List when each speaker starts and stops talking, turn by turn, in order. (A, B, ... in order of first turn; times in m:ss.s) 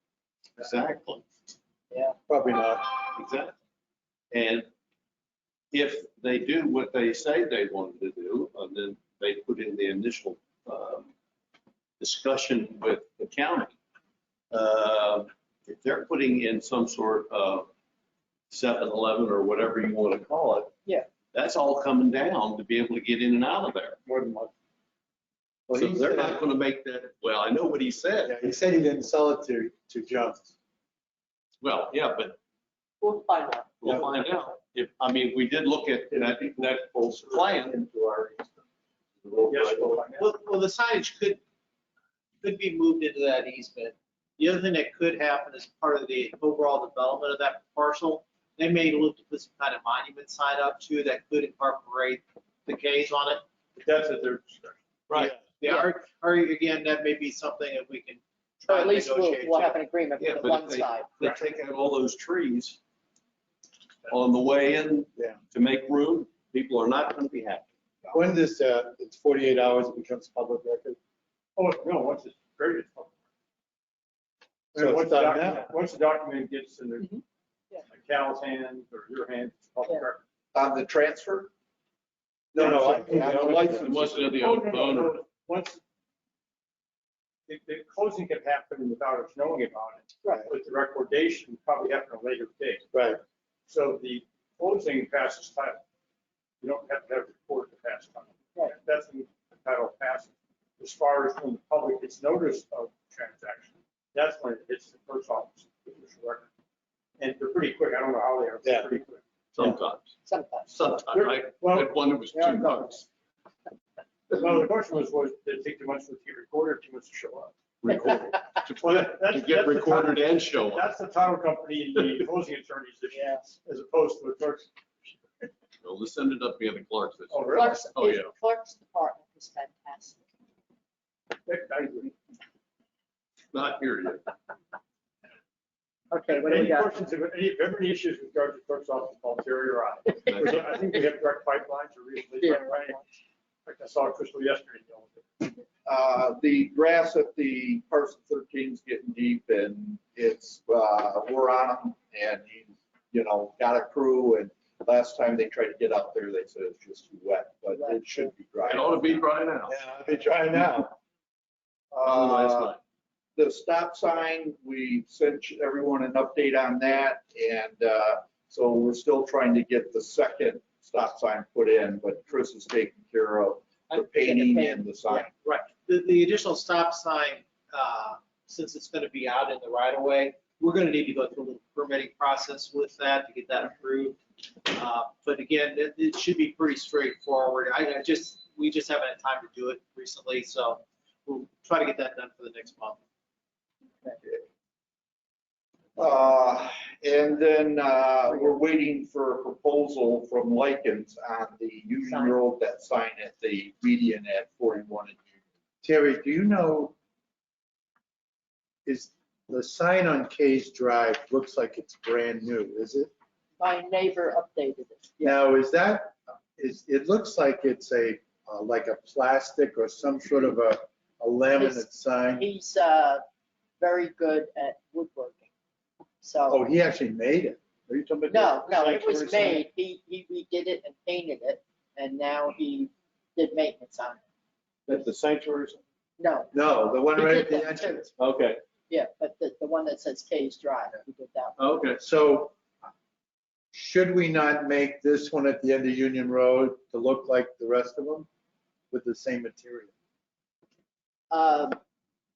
0:00.6-0:01.3 A
0:01.9-0:02.2 B
0:02.3-0:02.9 C
0:03.1-0:03.6 A
0:04.3-0:04.7 A
0:05.7-0:11.1 A
0:12.0-0:13.8 A
0:14.5-0:17.7 A
0:18.5-0:20.7 A
0:21.3-0:24.0 A
0:24.1-0:24.5 D
0:25.7-0:26.4 C
0:25.7-0:28.4 A
0:28.2-0:30.5 C
0:31.6-0:32.4 A
0:33.0-0:33.8 B
0:33.8-0:37.8 A
0:33.8-0:34.1 C
0:36.1-0:38.5 E
0:39.2-0:40.0 A
0:39.5-0:40.3 D
0:40.2-0:41.4 F
0:42.4-0:53.4 F
0:53.7-0:54.8 D
0:55.1-0:55.4 A
0:55.2-0:59.8 F
0:58.7-1:01.2 B
1:00.2-1:02.8 A
1:04.1-1:07.7 A
1:08.1-1:11.0 C
1:11.6-1:13.1 D
1:14.7-1:15.7 C
1:14.7-1:17.2 D
1:17.8-1:20.2 D
1:20.5-1:21.5 E
1:22.5-1:23.9 C
1:22.6-1:24.3 E
1:22.6-1:25.8 D
1:23.6-1:25.2 A
1:27.5-1:32.9 D
1:30.2-1:30.5 B
1:32.9-1:33.2 C
1:33.7-1:35.8 D
1:36.6-1:46.5 D
1:47.2-1:49.2 D
1:49.5-1:50.1 A
1:50.2-1:50.7 B
1:50.7-1:53.0 A
1:51.1-1:52.8 D
1:52.3-1:53.0 B
1:54.3-1:57.5 D
1:57.8-2:00.9 A
1:58.8-2:05.5 D
2:03.1-2:03.4 B
2:05.8-2:08.3 A
2:07.3-2:07.9 D
2:07.5-2:10.2 B
2:11.4-2:12.1 D
2:13.5-2:14.3 A
2:16.1-2:17.0 B
2:16.3-2:23.0 D
2:20.2-2:20.6 A
2:22.4-2:23.0 B
2:23.6-2:25.6 D
2:25.8-2:39.2 E
2:37.7-2:38.3 B
2:38.6-2:39.8 A
2:39.7-2:40.9 C
2:41.9-2:42.8 E
2:42.0-2:42.8 A
2:43.4-2:55.3 E
2:53.9-2:54.2 F
2:54.2-2:55.3 B
2:55.4-3:13.0 F
3:16.0-3:25.2 E
3:18.3-3:18.6 B
3:22.0-3:22.4 B
3:25.8-3:26.9 C
3:28.8-3:33.1 C
3:33.6-3:35.4 B
3:35.2-3:42.5 C
3:41.6-3:43.2 B
3:43.8-3:45.5 B
3:46.2-3:46.6 B
3:46.5-3:49.4 C
3:48.3-3:54.2 B
3:49.2-3:49.6 A
3:54.9-3:55.8 A
3:56.2-3:56.5 B
3:56.5-3:58.1 C
3:57.1-3:58.1 B
3:58.2-3:58.6 A
3:58.9-4:01.6 B
4:01.6-4:02.0 A
4:02.0-4:02.6 C
4:03.7-4:08.3 C
4:08.9-4:09.9 C
4:11.3-4:11.8 B